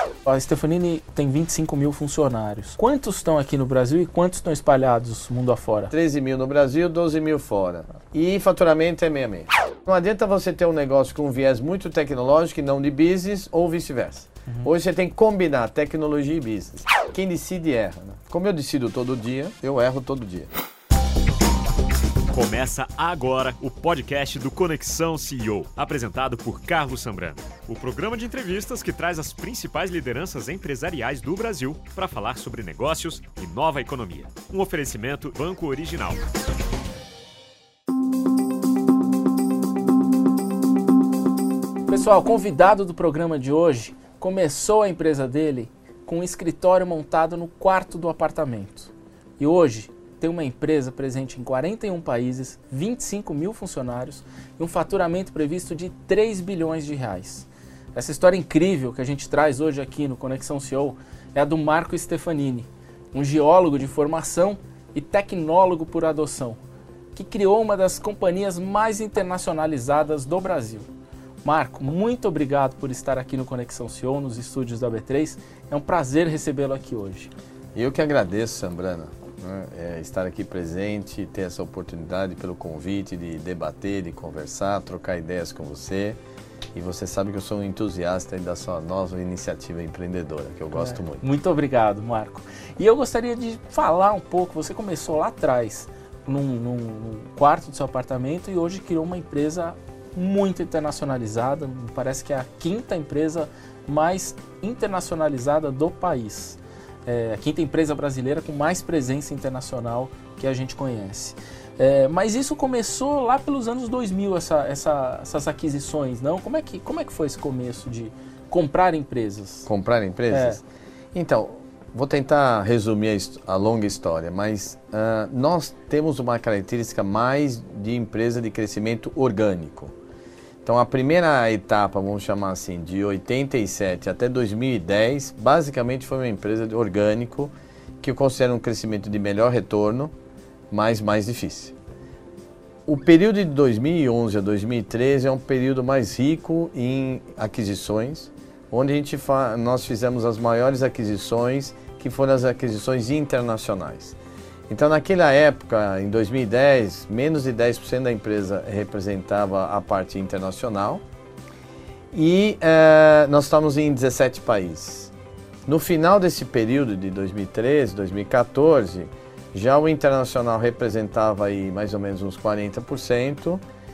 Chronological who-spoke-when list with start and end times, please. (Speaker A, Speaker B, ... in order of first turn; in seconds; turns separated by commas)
Speaker A: 0.2-5.9, Speaker B: 5.9-20.5, Speaker C: 22.3-36.2, Speaker A: 41.9-66.6, Speaker A: 67.1-70.9, Speaker A: 71.4-77.3, Speaker B: 77.7-86.2, Speaker B: 86.7-91.2, Speaker A: 90.7-119.7, Speaker B: 119.7-129.9, Speaker A: 120.3-120.6, Speaker B: 130.6-140.1, Speaker B: 140.7-141.7, Speaker B: 142.8-154.2, Speaker B: 154.7-161.0, Speaker B: 162.1-165.1, Speaker B: 165.7-173.6